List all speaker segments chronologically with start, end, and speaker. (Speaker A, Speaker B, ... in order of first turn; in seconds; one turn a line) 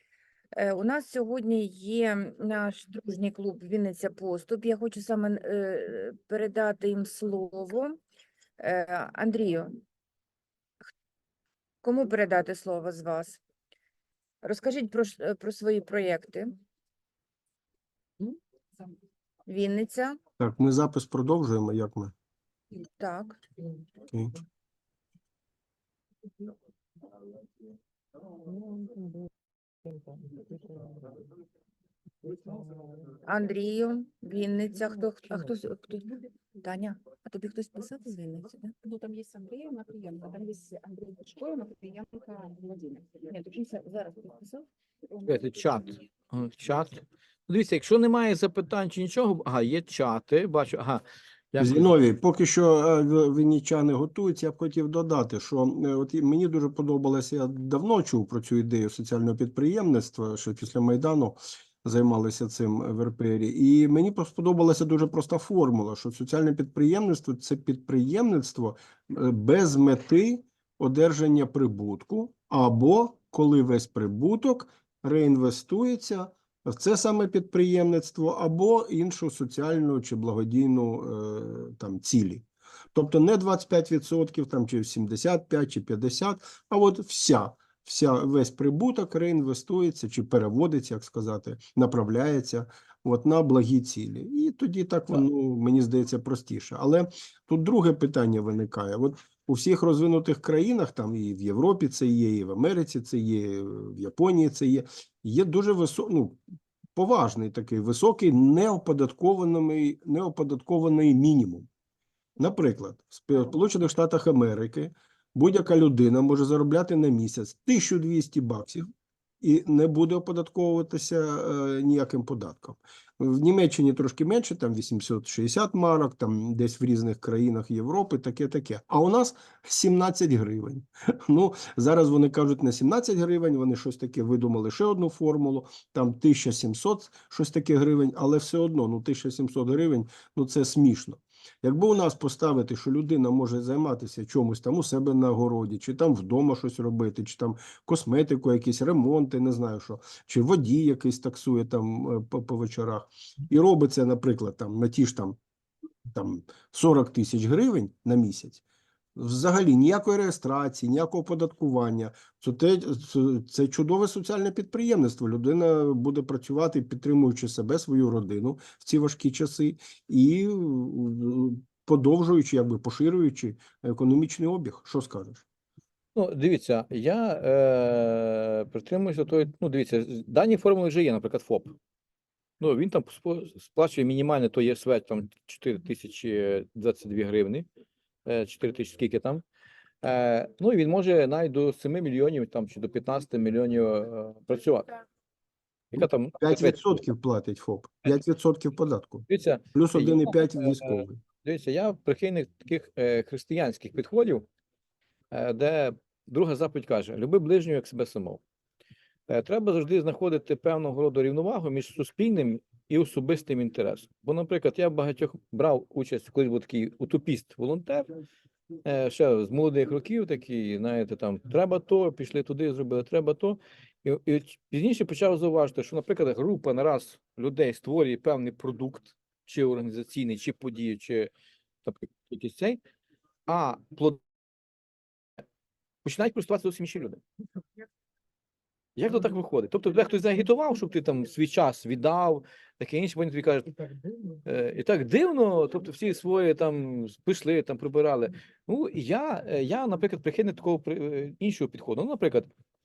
Speaker A: 0.5-8.0
Speaker A: 8.6-9.8
Speaker A: 11.8-13.4
Speaker A: 14.4-16.5
Speaker B: 18.2-18.9
Speaker A: 19.5-20.2
Speaker C: 20.4-22.1
Speaker A: 22.9-23.4
Speaker C: 24.1-24.4
Speaker A: 28.4-29.1
Speaker A: 33.2-38.7
Speaker B: 38.8-43.4
Speaker A: 43.3-44.6
Speaker D: 45.3-51.9
Speaker C: 51.6-106.4
Speaker C: 107.0-111.7
Speaker C: 112.4-118.9
Speaker C: 119.4-155.4
Speaker C: 156.1-158.6
Speaker C: 159.2-175.4
Speaker D: 176.1-181.8
Speaker D: 182.6-187.7
Speaker D: 188.2-189.4
Speaker D: 190.0-194.9
Speaker D: 195.9-197.0
Speaker C: 195.9-201.2
Speaker D: 199.3-204.5
Speaker D: 205.3-208.4
Speaker D: 209.3-218.1
Speaker D: 218.8-231.3
Speaker D: 231.8-232.8
Speaker D: 233.5-234.2
Speaker D: 236.0-237.2
Speaker D: 238.9-243.7
Speaker D: 244.4-252.5